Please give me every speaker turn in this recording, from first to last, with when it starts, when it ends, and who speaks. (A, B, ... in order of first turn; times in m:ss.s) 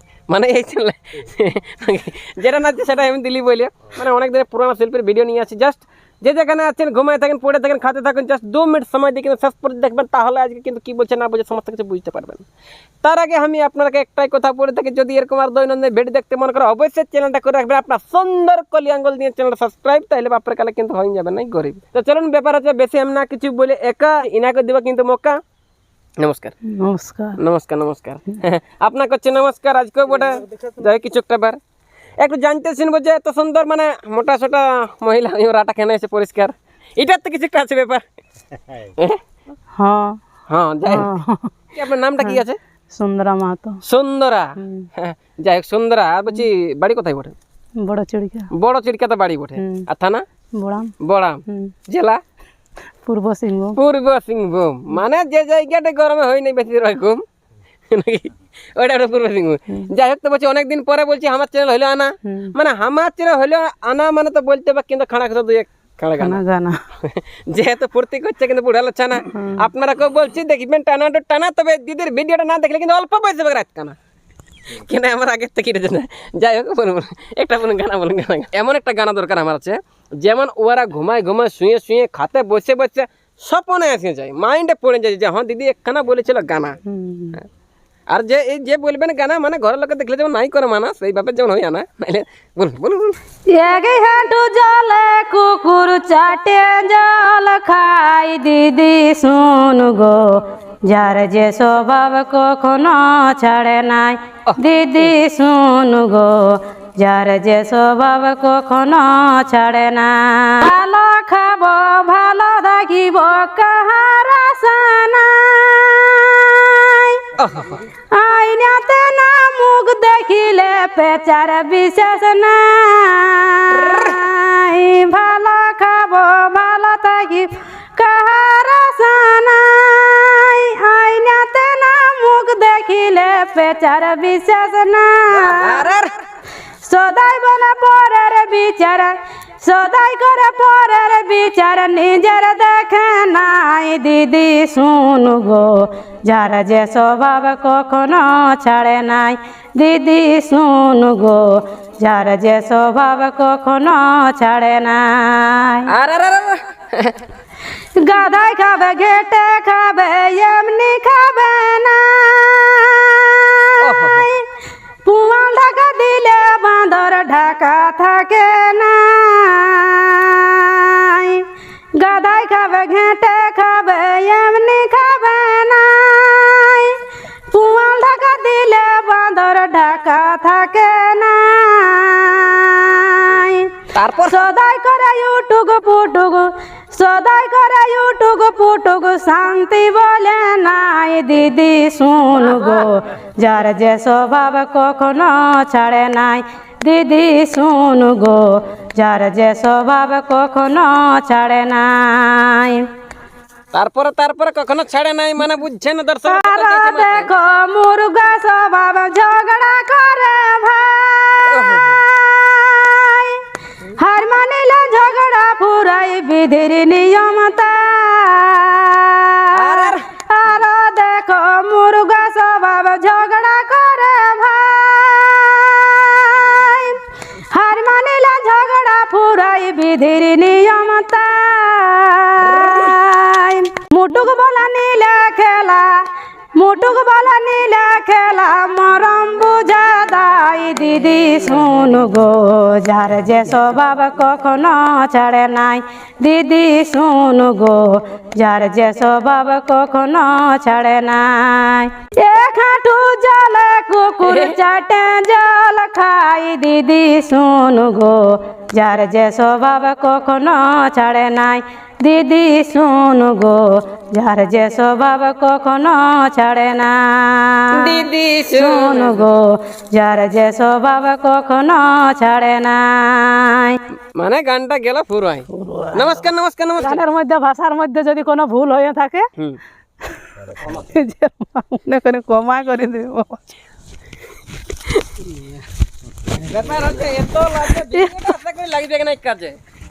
0:00.3-0:12.4 A
0:13.0-0:25.4 A
0:26.2-0:26.5 A
0:26.7-0:27.4 B
0:27.4-0:31.6 A
0:32.2-0:38.0 A
0:38.8-0:39.2 A
0:39.8-0:40.2 B
0:40.5-0:41.1 A
0:40.8-0:41.5 B
0:41.7-0:42.6 A
0:43.0-0:43.8 B
0:43.8-0:47.3 A
0:44.6-0:44.9 B
0:47.8-0:48.5 B
0:48.5-0:50.2 A
0:49.6-0:49.9 B
0:50.6-0:50.9 B
0:51.0-0:52.2 A
0:51.5-0:51.7 B
0:53.0-0:53.8 B
0:53.8-0:57.2 A
0:57.9-1:06.4 A
1:06.2-1:06.8 B
1:07.0-1:14.0 A
1:14.7-1:26.8 A
1:26.8-1:27.4 B
1:28.1-1:33.2 A
1:33.5-1:57.2 B
1:44.5-1:45.1 A
1:57.4-1:57.8 A
1:58.1-2:15.9 B
2:15.3-2:16.1 A
2:16.8-2:35.9 B
2:35.9-2:37.2 A
2:38.0-2:44.4 B
2:43.8-2:44.3 A
2:45.0-2:57.0 B
2:57.5-3:03.7 B
3:03.9-3:04.4 A
3:04.2-3:22.9 B
3:12.4-3:12.8 A
3:23.7-3:27.3 A
3:26.2-3:33.4 B
3:31.5-3:32.0 A
3:34.0-3:56.0 B
3:39.5-3:40.0 A
3:56.6-4:33.8 B
4:14.2-4:14.6 A
4:27.7-4:29.2 A
4:34.2-4:37.0 A
4:35.5-4:36.2 B
4:36.8-4:39.3 B
4:40.2-4:43.4 B
4:46.3-4:49.6 A
4:47.8-4:48.3 B